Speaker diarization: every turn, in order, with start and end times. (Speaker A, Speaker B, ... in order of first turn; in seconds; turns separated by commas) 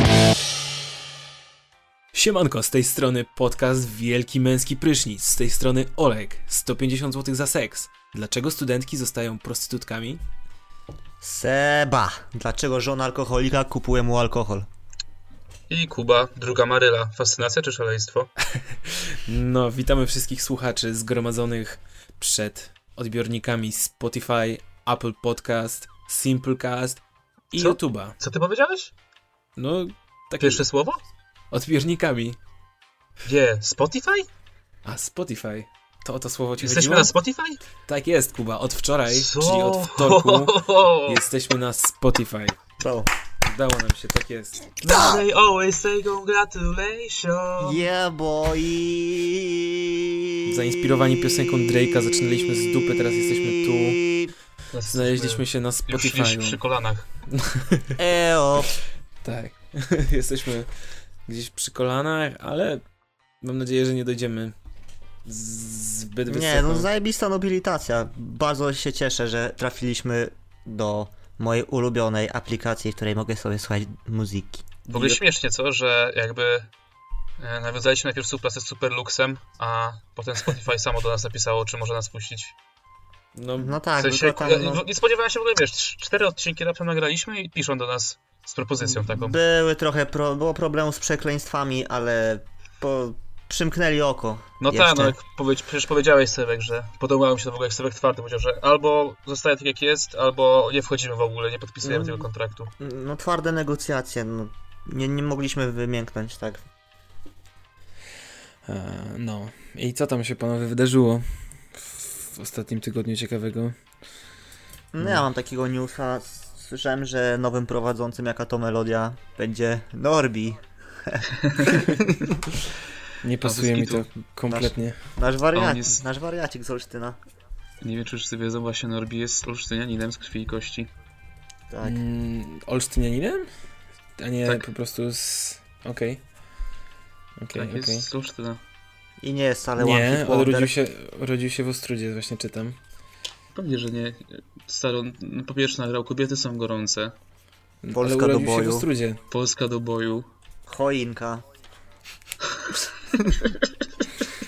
Speaker A: 2.1-10.2, Speaker B: 11.2-14.7, Speaker C: 15.7-18.3, Speaker A: 18.5-28.1, Speaker C: 27.5-28.9, Speaker A: 29.6-30.6, Speaker C: 30.4-31.0, Speaker A: 31.5-32.4, Speaker C: 33.2-34.3, Speaker A: 34.9-37.1, Speaker C: 36.6-37.6, Speaker A: 37.9-42.6, Speaker C: 39.1-41.2, Speaker B: 42.8-43.1, Speaker A: 43.4-44.6, Speaker C: 44.8-47.8, Speaker B: 44.8-45.2, Speaker B: 47.6-50.5, Speaker A: 50.5-54.0, Speaker B: 51.0-54.3, Speaker C: 54.7-57.0, Speaker A: 54.9-56.6, Speaker A: 57.3-57.9, Speaker B: 58.0-58.7, Speaker A: 59.2-60.7, Speaker A: 61.2-62.8, Speaker A: 63.4-64.5, Speaker A: 65.2-66.9, Speaker B: 66.3-74.6, Speaker C: 74.9-76.7, Speaker A: 74.9-75.2, Speaker C: 77.4-82.5, Speaker A: 83.3-83.8, Speaker B: 83.6-84.8, Speaker C: 84.0-89.4, Speaker B: 88.8-95.2, Speaker C: 94.6-102.7, Speaker B: 101.8-102.3, Speaker B: 102.8-106.6, Speaker A: 108.6-113.7, Speaker B: 114.9-122.5, Speaker A: 115.0-115.2, Speaker A: 123.2-125.0, Speaker C: 123.4-124.1, Speaker B: 124.5-127.2, Speaker C: 125.5-126.0, Speaker C: 127.8-130.9, Speaker B: 131.7-132.0, Speaker A: 131.8-133.5, Speaker A: 134.2-136.2, Speaker A: 137.4-138.1, Speaker C: 137.5-138.6, Speaker B: 139.2-140.7, Speaker A: 139.8-142.8, Speaker C: 143.5-147.2, Speaker A: 147.8-149.2, Speaker B: 147.9-148.8, Speaker C: 149.3-150.3, Speaker B: 150.7-151.4, Speaker B: 153.1-153.5